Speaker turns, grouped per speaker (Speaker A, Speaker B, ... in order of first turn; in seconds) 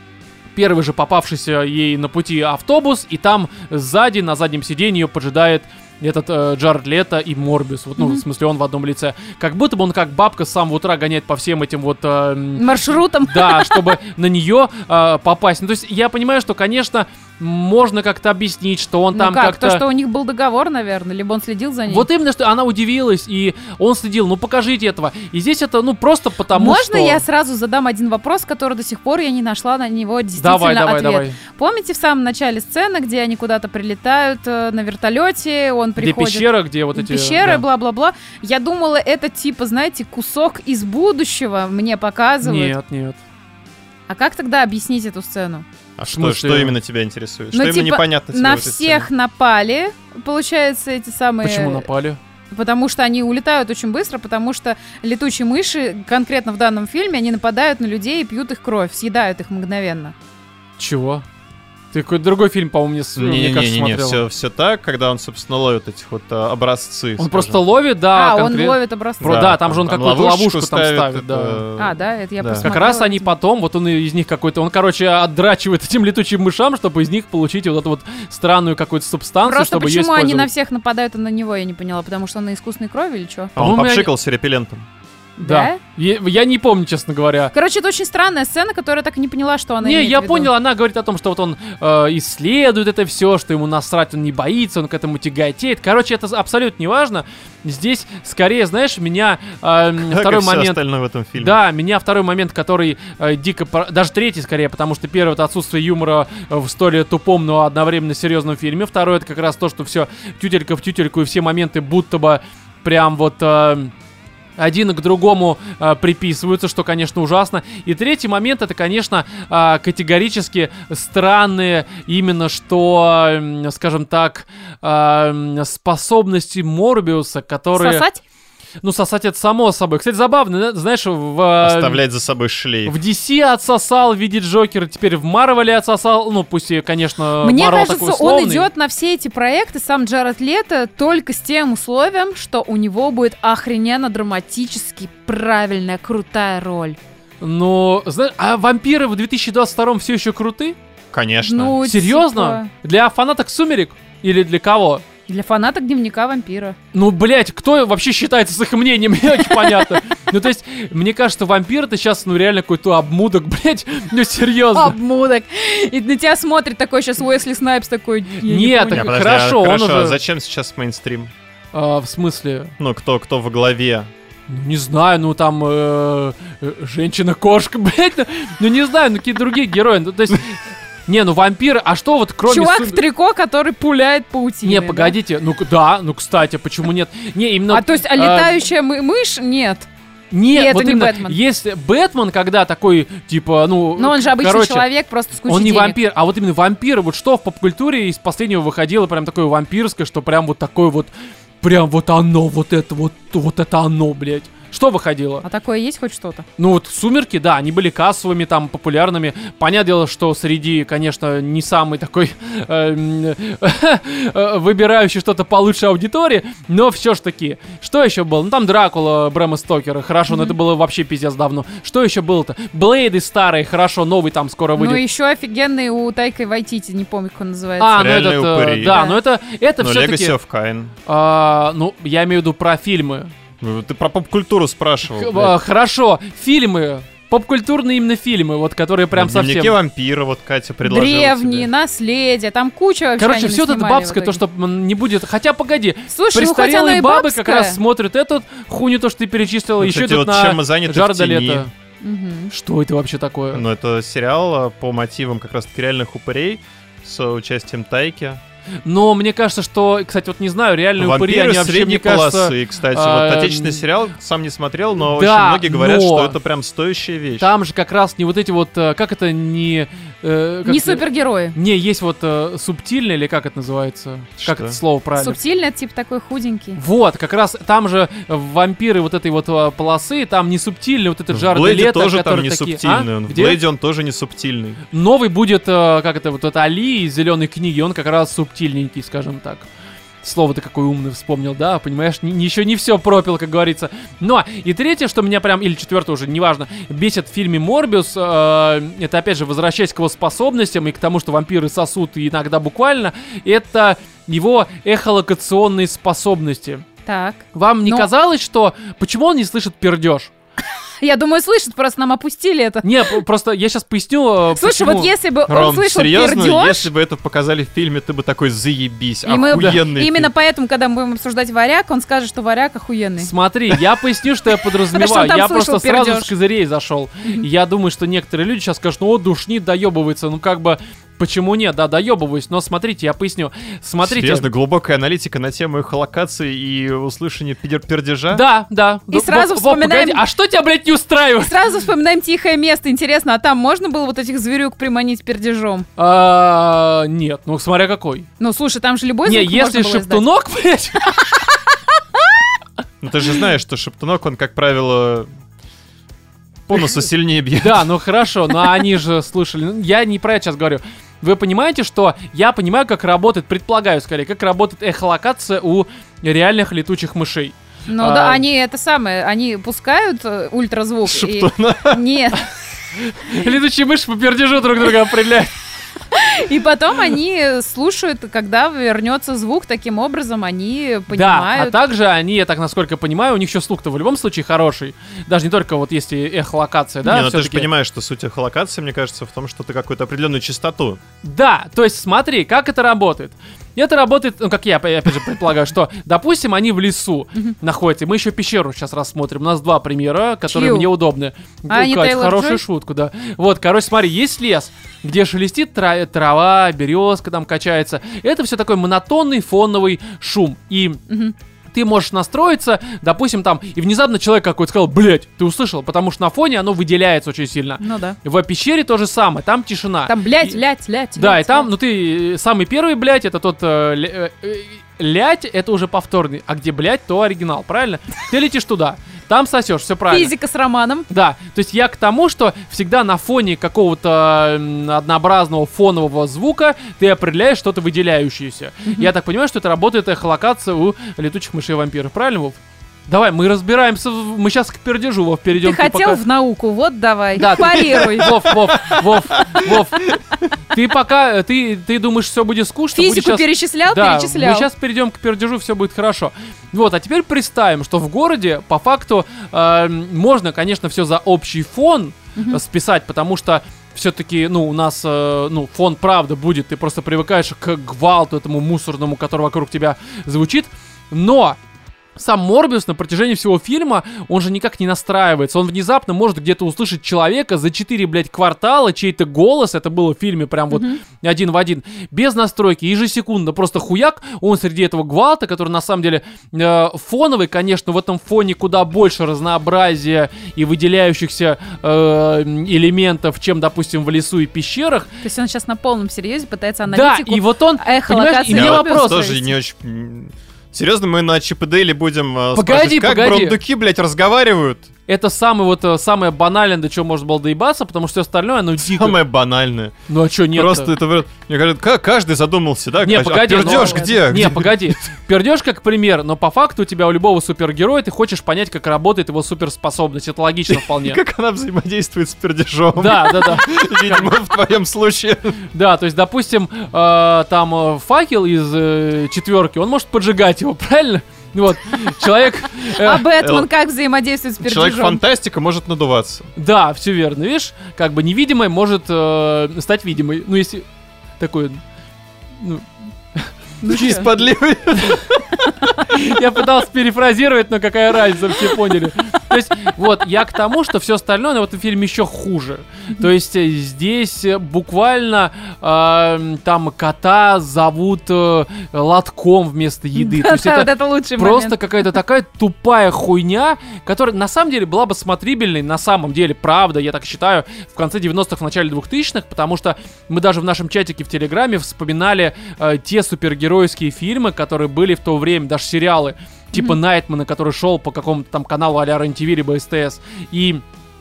Speaker A: 0.6-19.8, 21.9-27.2, 30.4-31.4, 36.0-37.6, 42.4-43.2, 46.1-46.7, 51.4-52.2, 60.8-61.2, 61.9-64.2, 67.2-71.6, 72.6-80.5, 83.6-84.1, 85.4-87.5, 89.8-100.8, 101.3-113.9, 114.6-128.0, 128.8-132.0, 132.9-138.7, 147.4-150.8, 151.8-155.1, 156.9-164.9, 168.4-170.2, 171.7-172.7, 174.5-183.0, 184.6-188.6, 190.3-194.9, 195.5-201.1, 201.6-205.4, 206.6-225.0, 227.8-230.3, 231.1-233.3, 235.1-239.8, 243.2-251.7, 252.5-253.6, 258.9-263.8, 265.0-266.4, 267.4-275.4, 276.8-283.6, 284.9-289.7, 290.2-306.9, 307.6-310.3, 312.8-315.1, 323.2-334.5, 338.3-341.6, 346.0-348.3, 349.2-351.2, 357.6-368.4, 373.0-375.6, 381.1-387.7, 391.2-411.0, 411.7-420.6, 421.1-430.3, 431.1-446.2, 447.4-471.6, 472.1-495.1, 496.9-499.3, 502.5-503.6, 505.1-509.2, 510.1-510.9, 513.0-521.2, 522.9-524.3, 525.7-533.3, 536.6-540.9, 541.4-541.8, 542.6-543.5, 546.0-580.8
Speaker B: 12.6-14.0, 19.1-22.1, 26.5-42.7, 44.1-45.6, 47.5-51.9, 52.5-60.1, 68.1-69.4, 71.8-73.3, 79.4-83.5, 85.4-85.8, 87.5-90.5, 127.8-128.2, 137.4-147.0, 151.4-152.7, 155.3-156.8, 159.4-159.9, 164.7-169.1, 182.4-185.2, 187.7-189.9, 190.5-191.4, 194.0-196.0, 205.4-206.4, 220.3-220.6, 224.8-228.2, 228.8-229.2, 240.8-244.4, 246.1-247.8, 252.0-252.5, 270.6-271.6, 275.1-276.8, 307.1-308.1, 311.0-313.2, 314.6-316.9, 319.3-323.3, 324.9-326.3, 339.1-340.2, 341.4-345.9, 348.4-350.2, 367.9-372.5, 376.1-381.8, 400.5-400.9, 401.7-402.6, 411.1-411.3, 417.8-418.2, 420.1-421.7, 430.1-431.1, 445.5-448.6, 452.9-454.7, 480.7-481.0, 495.2-499.5, 513.6-514.1, 532.8-535.2, 543.8-544.4, 560.1-561.8
Speaker C: 46.0-49.1, 63.1-67.6, 69.2-72.7, 83.6-84.9, 100.0-101.6, 131.6-132.9, 151.1-151.8, 168.9-171.3, 172.8-174.1, 227.9-229.0, 229.8-230.9, 233.6-235.6, 239.1-241.7, 249.8-251.7, 253.5-258.4, 261.0-267.5, 274.4-274.8, 281.3-284.8, 315.5-320.3, 334.0-338.4, 353.0-355.3, 356.7-357.9, 371.1-372.0, 387.0-391.0, 448.0-449.0, 498.5-504.9, 508.8-509.9, 510.5-515.0, 520.7-525.6, 533.4-533.7, 534.6-536.5, 543.9-546.2